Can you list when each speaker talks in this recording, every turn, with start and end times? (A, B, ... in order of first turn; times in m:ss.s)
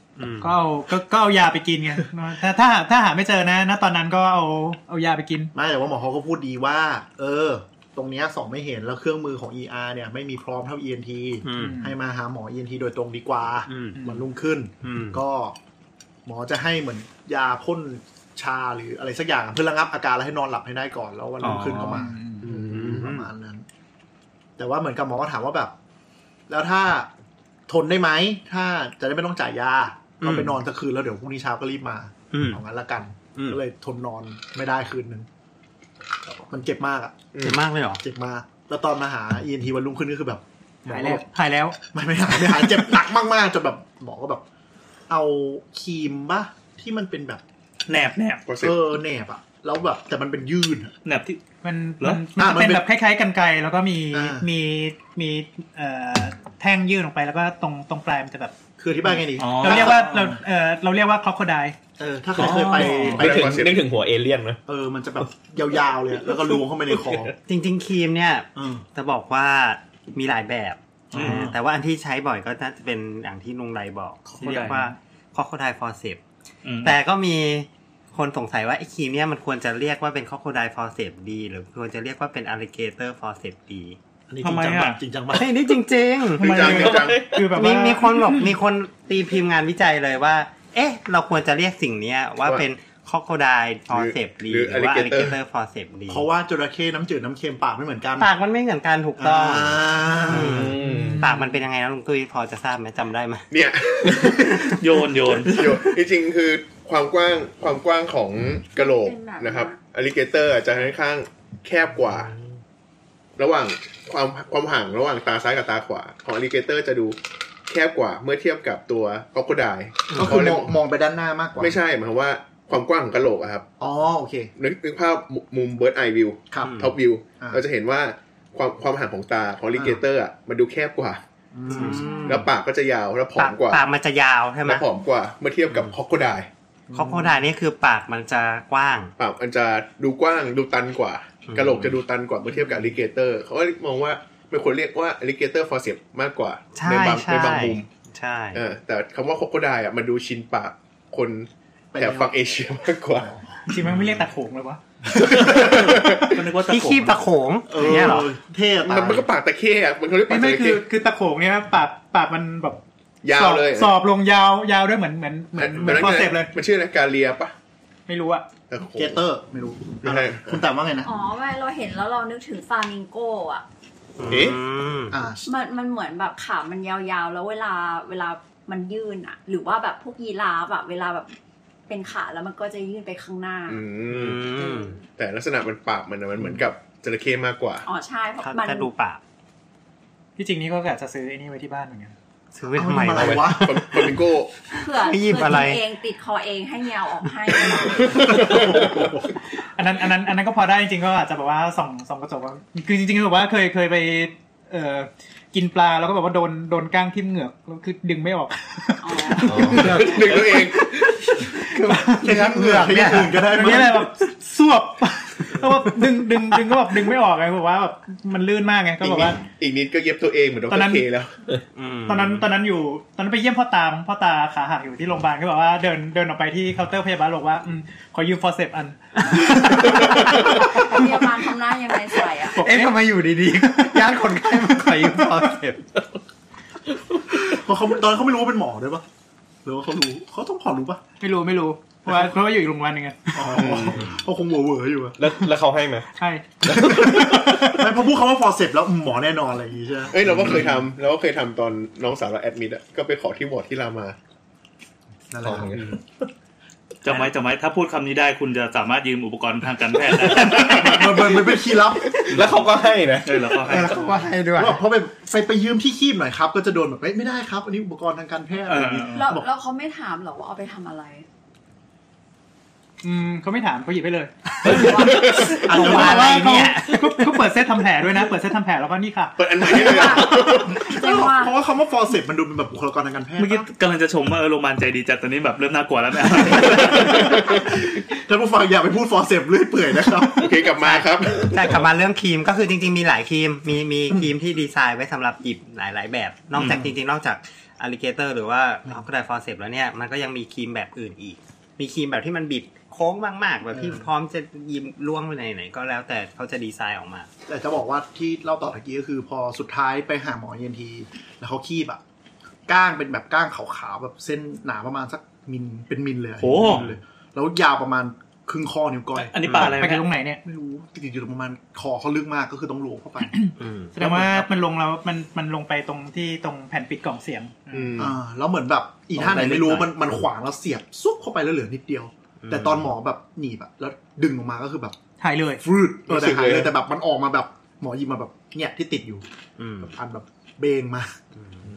0:00.2-0:00.6 A
0:00.4-0:05.5 B
0:05.5-0:15.6 C
0:11.4-0:11.8 A
0:11.5-0:11.9 B
0:13.6-0:14.0 A
0:14.0-0:14.2 B
0:14.8-0:15.2 A
0:16.2-0:23.6 C
0:21.4-0:21.8 D
0:21.7-0:22.5 B
0:22.4-0:23.1 E
0:22.7-0:23.2 A
0:24.6-0:25.7 C
0:26.5-0:27.1 C
0:27.7-0:35.3 C
0:30.2-0:30.6 A
0:32.3-0:32.6 A
0:33.3-0:33.6 A
0:36.5-0:37.2 C
0:37.3-0:37.6 E
0:37.4-0:38.0 A
0:38.0-0:41.2 C
0:40.9-0:41.8 B
0:41.9-0:44.4 C
0:45.1-0:47.4 C
0:47.9-0:48.4 D
0:48.4-0:48.8 E
0:48.6-0:50.9 C
0:51.0-0:51.4 D
0:51.6-0:58.5 B
0:52.3-0:52.8 C
0:54.1-0:54.5 C
0:58.8-1:00.4 C
0:59.4-1:00.0 D
0:59.6-1:01.7 B
1:02.0-1:03.7 C
1:02.4-1:03.2 D
1:02.4-1:04.6 F
1:03.0-1:03.8 E
1:04.7-1:07.3 C
1:07.4-1:16.2 A
1:08.6-1:08.8 C
1:11.1-1:11.6 C
1:11.1-1:11.4 D
1:14.4-1:14.9 D
1:16.6-1:17.0 D
1:16.8-1:24.0 A
1:24.3-1:25.6 C
1:24.4-1:25.0 D
1:25.3-1:26.6 A
1:26.4-1:27.2 E
1:26.4-1:28.4 B
1:26.6-1:27.4 F
1:27.4-1:36.3 A
1:33.9-1:35.4 E
1:36.1-1:38.3 C
1:38.2-1:43.5 A
1:39.2-1:40.8 C
1:40.3-1:41.2 F
1:41.0-1:41.5 B
1:43.5-1:44.7 E
1:44.8-1:45.5 D
1:45.3-1:46.0 C
1:45.4-1:52.4 E
1:48.8-1:49.8 G
1:53.4-2:00.7 E
2:00.1-2:01.8 C
2:01.6-2:03.6 E
2:03.8-2:04.5 C
2:04.6-2:11.2 E
2:06.6-2:06.9 A
2:09.7-2:10.0 C
2:11.5-2:12.4 C
2:11.7-2:12.5 A
2:11.8-2:13.8 E
2:12.0-2:12.3 G
2:13.4-2:14.8 A
2:14.6-2:16.5 E
2:15.7-2:15.9 A
2:16.9-2:17.4 C
2:16.9-2:19.1 A
2:19.2-2:27.8 E
2:21.4-2:22.0 A
2:26.7-2:28.6 A
2:28.5-2:33.3 E
2:31.9-2:32.3 C
2:33.1-2:33.4 C
2:33.7-2:34.8 B
2:35.1-2:36.4 E
2:35.2-2:36.0 C
2:36.3-2:37.2 D
2:36.6-2:38.3 A
2:37.7-2:39.3 C
2:38.8-2:40.8 E
2:40.3-2:46.5 B
2:43.2-2:44.0 E
2:45.6-2:47.5 E
2:48.1-2:48.4 B
2:48.7-2:49.2 E
2:48.9-2:51.1 C
2:50.0-2:50.6 E
2:51.0-2:53.6 G
2:54.2-2:55.2 A
2:54.3-2:54.6 E
2:55.1-2:55.5 C
2:55.4-3:01.3 G
3:01.9-3:03.8 G
3:03.7-3:04.5 E
3:04.1-3:05.0 A
3:05.2-3:07.8 E
3:07.8-3:08.9 G
3:08.4-3:09.2 A
3:10.4-3:12.1 B
3:12.5-3:15.8 A
3:12.7-3:13.8 C
3:13.3-3:14.5 E
3:14.7-3:18.2 G
3:17.7-3:19.1 E
3:17.9-3:19.3 C
3:19.8-3:39.4 B
3:29.0-3:30.4 G
3:29.5-3:31.1 E
3:31.8-3:33.0 A
3:32.0-3:34.1 C
3:39.0-3:41.3 E
3:40.7-3:41.0 B
3:41.7-3:42.5 A
3:42.1-3:50.4 B
3:49.4-3:51.1 A
3:50.4-3:52.6 G
3:52.6-3:53.0 B
3:52.6-3:55.8 A
3:54.8-3:55.2 B
3:57.3-3:59.0 C
3:59.6-4:01.0 C
4:01.2-4:03.4 B
4:03.3-4:05.2 C
4:05.2-4:06.1 F
4:06.2-4:06.9 B
4:06.6-4:07.7 F
4:06.7-4:10.7 C
4:10.1-4:14.2 E
4:15.3-4:15.8 C
4:15.4-4:16.0 F
4:17.0-4:21.3 D
4:20.2-4:22.4 C
4:22.3-4:23.4 F
4:22.3-4:22.6 D
4:23.2-4:24.0 D
4:23.6-4:24.8 A
4:23.7-4:24.0 C
4:24.5-4:29.5 C
4:28.7-4:29.3 D
4:29.1-4:31.2 G
4:33.0-4:39.8 B
4:34.6-4:37.5 A
4:34.7-4:35.3 G
4:35.6-4:36.5 C
4:39.4-4:40.9 E
4:39.6-4:41.6 G
4:39.9-4:43.6 C
4:43.4-4:47.3 D
4:46.3-4:51.3 C
4:47.0-4:47.7 E
4:50.4-4:51.5 E
4:50.8-5:07.3 A
4:56.5-4:56.9 C
5:03.7-5:04.0 C
5:07.5-5:12.0 C
5:12.7-5:19.3 C
5:16.4-5:16.9 D
5:16.6-5:17.0 A
5:19.2-5:20.1 D
5:19.4-5:19.8 A
5:19.6-5:20.4 B
5:20.4-5:23.3 C
5:23.3-5:27.9 B
5:23.6-5:23.9 A
5:27.7-5:28.1 E
5:28.0-5:35.0 C
5:29.2-5:29.9 A
5:32.4-5:32.9 A
5:35.2-5:35.6 B
5:35.6-5:39.2 C
5:36.1-5:36.7 E
5:39.6-5:39.9 A
5:39.8-5:41.1 C